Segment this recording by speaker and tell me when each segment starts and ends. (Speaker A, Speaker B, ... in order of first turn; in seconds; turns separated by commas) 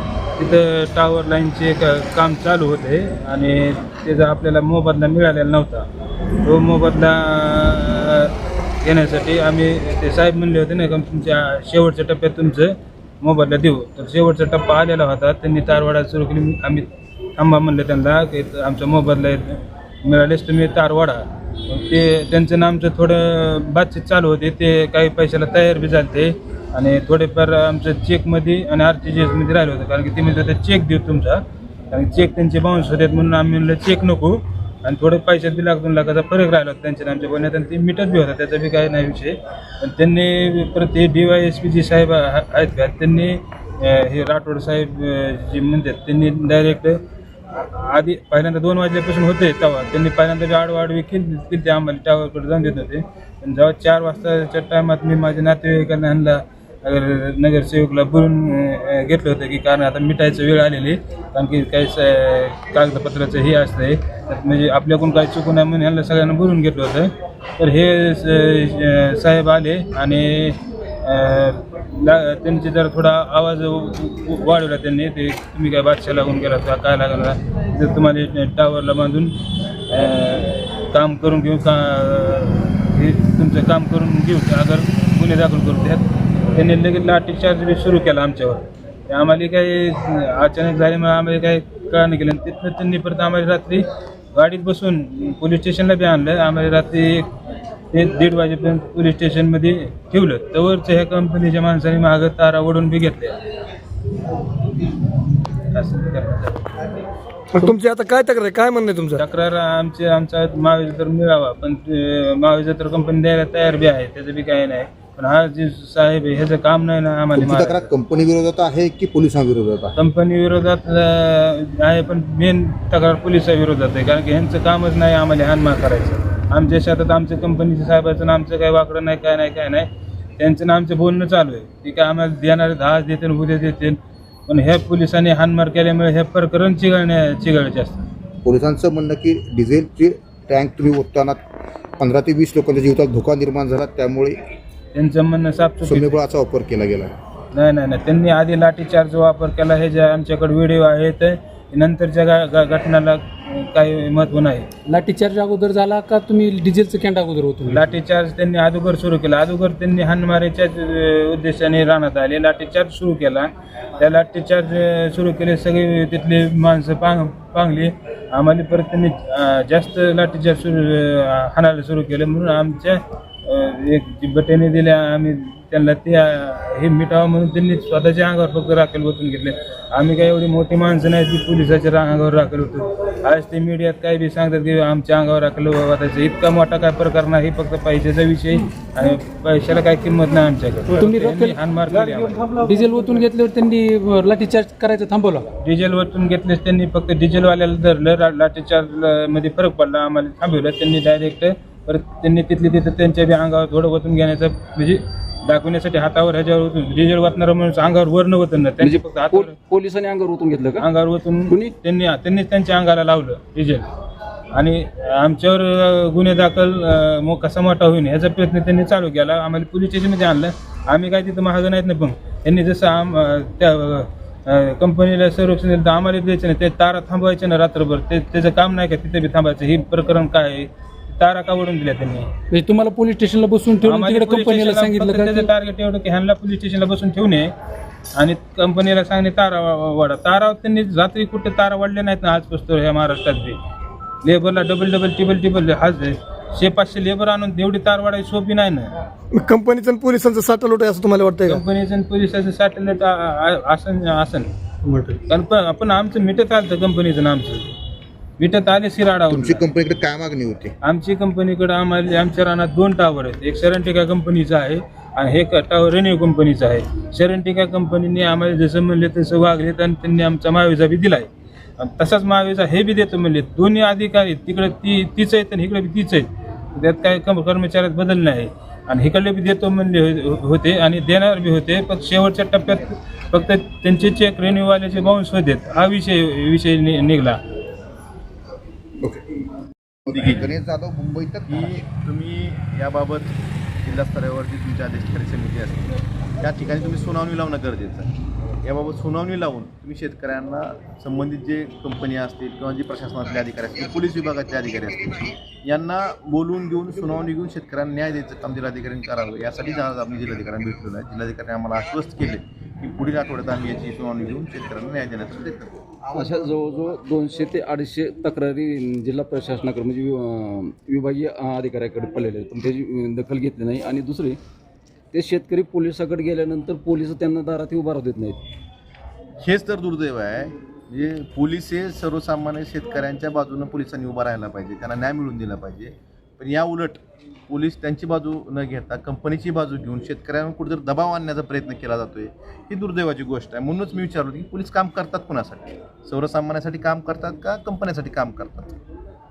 Speaker A: 0.4-5.9, Speaker A: 6.4-47.0, Speaker A: 47.5-97.3, Speaker A: 97.9-103.4, Speaker A: 105.6-106.9, Speaker B: 107.5-109.2, Speaker A: 109.2-117.9, Speaker C: 117.3-119.9, Speaker A: 120.0-138.0, Speaker C: 138.4-141.4, Speaker C: 142.0-144.4, Speaker A: 144.9-146.2, Speaker C: 145.8-147.1, Speaker A: 147.5-154.7, Speaker D: 154.8-157.8, Speaker A: 157.7-192.6, Speaker D: 191.0-195.5, Speaker A: 195.6-209.6, Speaker E: 208.8-210.9, Speaker A: 210.8-213.9, Speaker E: 211.5-211.7, Speaker A: 214.5-232.3, Speaker D: 232.5-235.5, Speaker A: 233.8-237.5, Speaker A: 238.2-243.6, Speaker A: 244.2-248.9, Speaker B: 249.3-251.5, Speaker A: 251.4-254.5, Speaker A: 255.1-257.7, Speaker A: 258.4-259.7, Speaker C: 259.3-260.7, Speaker A: 260.8-287.4, Speaker C: 289.0-289.4, Speaker C: 290.1-291.8, Speaker F: 290.1-290.4, Speaker F: 291.5-316.0, Speaker E: 316.1-324.4, Speaker E: 325.1-328.4, Speaker F: 329.4-348.8